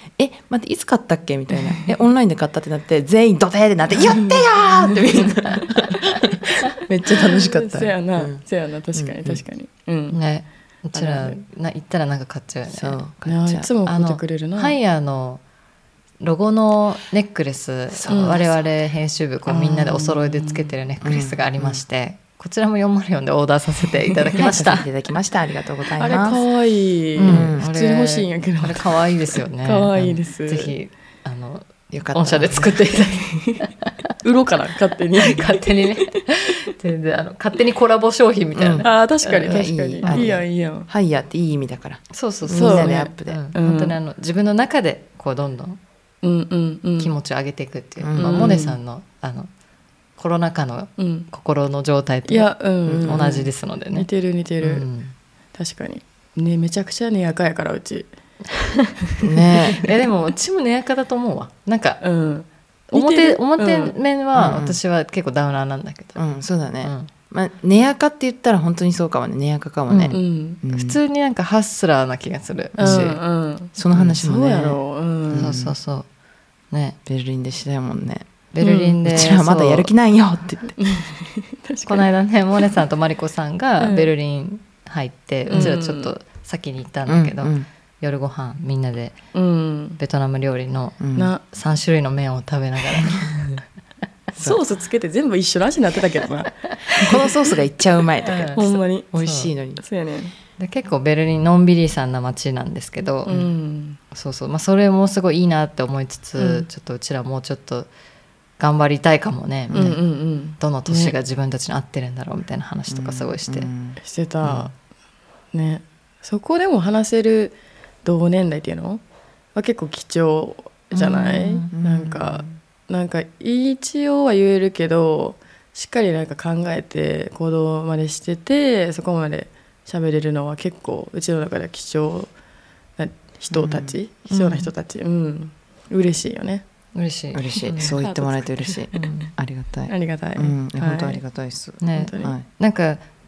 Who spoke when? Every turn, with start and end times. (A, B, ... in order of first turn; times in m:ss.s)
0:00.2-0:08.4 A
0:07.1-0:10.2 B
0:08.9-0:09.4 A
0:10.1-0:13.0 C
0:10.9-0:11.4 B
0:12.7-0:13.7 A
0:13.2-0:14.8 B
0:13.8-0:15.4 C
0:16.2-0:24.8 C
0:17.9-0:18.5 A
0:18.1-0:18.5 B
0:19.5-0:20.7 B
0:21.0-0:21.8 A
0:24.4-0:26.4 A
0:26.0-0:30.7 B
0:27.2-0:33.9 C
0:27.3-0:27.6 A
0:31.9-0:32.7 A
0:33.1-0:33.6 B
0:34.2-0:36.1 B
0:35.2-0:40.4 C
0:38.5-0:38.9 A
0:38.8-0:40.9 B
0:39.4-0:43.4 A
0:42.1-0:45.8 C
0:42.5-0:44.0 B
0:46.2-0:47.1 B
0:47.0-0:49.5 C
0:48.0-0:48.4 A
0:48.2-0:48.8 B
0:50.2-0:52.5 C
0:51.0-0:51.3 B
0:52.3-0:54.8 B
0:52.8-0:53.4 A
0:53.0-0:54.1 C
0:54.6-0:55.1 C
0:55.5-0:58.1 B
0:58.6-0:58.9 C
0:59.2-0:59.9 A
0:59.8-1:02.0 C
1:02.0-1:03.9 B
1:02.9-1:06.2 C
1:04.3-1:04.8 A
1:06.2-1:11.0 A
1:06.8-1:07.1 C
1:09.9-1:13.2 C
1:10.1-1:10.6 B
1:12.8-1:15.6 B
1:12.8-1:13.2 A
1:13.7-1:15.7 A
1:15.3-1:16.0 C
1:16.7-1:17.0 C
1:17.0-1:18.2 A
1:18.5-1:19.9 C
1:18.6-1:19.0 B
1:19.0-1:20.8 A
1:20.8-1:22.1 B
1:21.8-1:29.2 C
1:23.8-1:24.1 B
1:25.5-1:26.1 B
1:27.1-1:27.7 A
1:29.3-1:30.0 B
1:30.0-1:33.6 C
1:31.0-1:31.3 A
1:31.2-1:31.4 B
1:34.3-1:37.2 B
1:36.9-1:39.8 A
1:38.2-1:39.5 C
1:38.5-1:39.1 B
1:39.8-1:40.3 B
1:40.6-1:43.4 C
1:43.2-1:44.0 B
1:44.1-1:47.9 C
1:46.4-1:46.6 B
1:48.6-1:50.0 C
1:49.7-1:49.9 A
1:49.7-1:51.1 B
1:50.6-1:53.7 C
1:52.9-1:54.7 A
1:54.0-1:54.7 B
1:55.5-1:59.0 B
1:59.5-2:12.3 B
2:00.9-2:01.7 C
2:01.7-2:02.5 A
2:13.0-2:16.6 B
2:13.5-2:14.0 A
2:14.3-2:14.7 C
2:16.9-2:18.0 C
2:17.3-2:22.4 A
2:17.8-2:18.9 B
2:18.9-2:19.3 C
2:19.9-2:21.2 B
2:21.8-2:23.0 C
2:21.9-2:22.3 B